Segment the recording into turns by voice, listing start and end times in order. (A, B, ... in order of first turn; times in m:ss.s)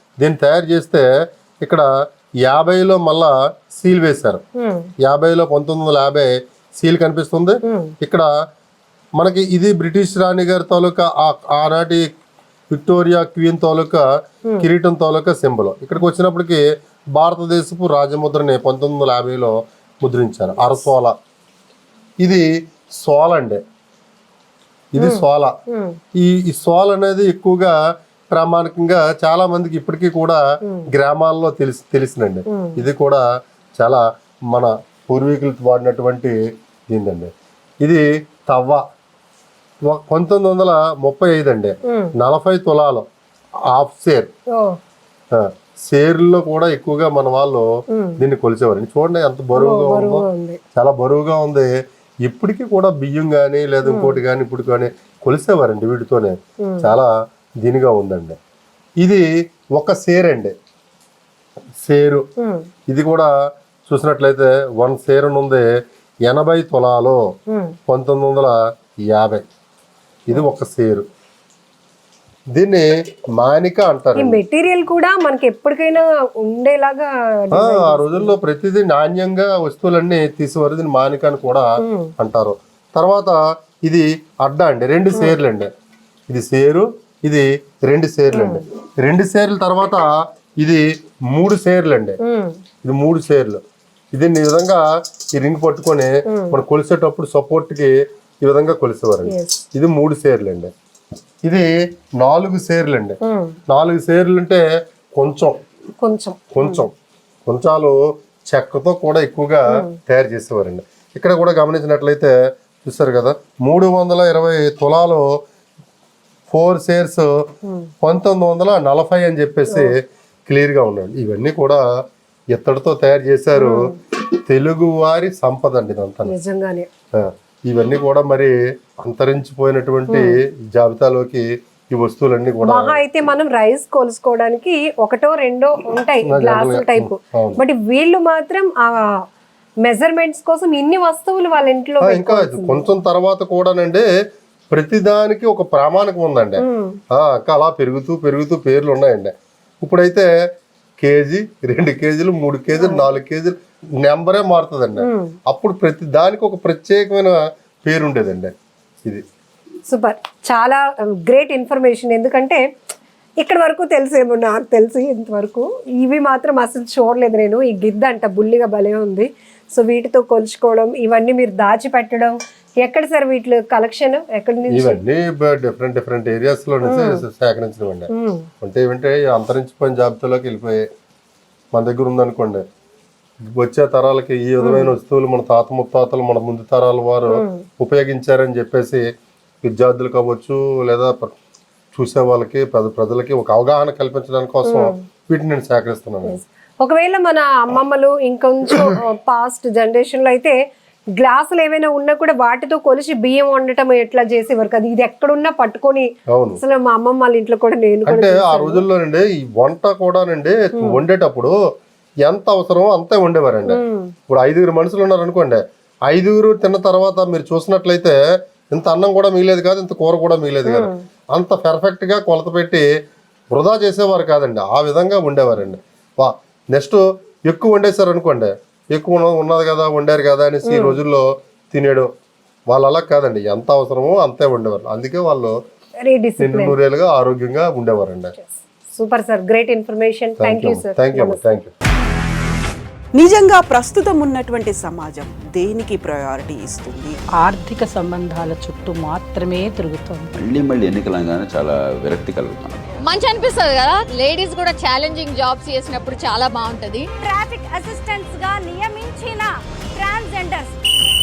0:00.2-0:01.1 A
0:02.4-0:04.4 A
0:04.6-0:04.9 B
0:05.0-0:08.3 A
0:07.7-0:07.9 B
0:09.2-0:12.0 A
0:12.7-0:14.0 A
0:14.6-0:21.2 A
0:23.0-0:23.6 A
0:25.0-0:25.6 A
0:25.0-0:26.0 B
0:26.2-0:27.8 A
0:28.3-0:33.2 A
0:32.5-0:32.8 B
0:33.8-0:36.4 A
0:36.9-0:37.3 A
0:37.8-0:38.8 A
0:39.8-0:43.1 A
0:41.9-0:42.1 B
0:43.7-0:44.3 A
0:45.3-0:47.7 A
0:47.9-0:48.2 B
0:48.2-0:51.7 A
0:49.6-0:50.6 B
0:52.2-0:58.4 A
0:53.8-0:54.2 B
0:56.6-0:56.9 B
0:59.0-1:00.5 A
1:01.8-1:02.2 A
1:02.4-1:02.7 B
1:02.9-1:03.3 A
1:03.9-1:05.6 A
1:06.3-1:07.2 A
1:07.5-1:07.8 B
1:07.9-1:08.6 A
1:09.1-1:09.4 A
1:10.3-1:11.1 A
1:12.5-1:14.4 A
1:14.2-1:18.3 B
1:17.5-1:21.7 A
1:21.8-1:22.1 B
1:22.2-1:25.7 A
1:26.3-1:30.1 A
1:28.3-1:28.6 B
1:30.6-1:32.2 A
1:32.2-1:32.6 B
1:32.8-1:33.6 A
1:34.1-1:40.7 A
1:36.3-1:36.6 B
1:39.3-1:39.6 B
1:41.4-1:43.2 A
1:43.2-1:43.6 B
1:43.7-1:45.6 A
1:46.0-1:46.8 B
1:46.5-1:46.9 A
1:47.5-1:55.3 A
1:56.5-1:57.3 A
1:57.7-1:57.9 B
1:58.0-2:00.0 A
2:00.5-2:01.8 A
2:02.5-2:06.3 A
2:03.6-2:04.0 B
2:06.3-2:06.9 B
2:07.1-2:13.0 A
2:10.1-2:10.4 B
2:12.6-2:19.2 B
2:16.2-2:17.6 A
2:19.8-2:22.9 B
2:22.0-2:24.1 A
2:24.7-2:30.3 A
2:26.6-2:27.0 B
2:31.0-2:38.5 A
2:32.8-2:33.1 B
2:35.0-2:35.4 B
2:39.9-2:42.6 B
2:43.4-2:55.0 B
2:54.7-2:58.1 A
2:56.8-2:57.2 B
2:58.1-2:58.5 B
2:58.6-3:00.8 A
3:01.7-3:02.6 A
3:03.5-3:09.0 A
3:04.6-3:05.0 B
3:07.3-3:07.6 B
3:09.6-3:11.4 A
3:11.9-3:16.4 A
3:14.6-3:15.0 B
3:16.3-3:20.6 B
3:21.2-3:26.1 B
3:26.3-3:26.6 A
3:26.6-3:28.8 B
3:28.1-3:31.6 A
3:30.7-3:31.0 B
3:32.2-3:38.2 A
3:33.7-3:34.2 B
3:38.7-3:42.8 A
3:40.6-3:41.0 B
3:43.5-3:52.1 A
3:50.6-3:51.0 B
3:52.7-3:55.6 A
3:56.0-3:56.8 B
3:56.4-3:58.3 A
3:58.4-4:01.4 B
4:00.4-4:01.7 A
4:03.1-4:07.2 C
4:07.4-4:10.3 D
4:10.4-4:12.8 E
4:13.0-4:17.1 F
4:17.2-4:20.8 G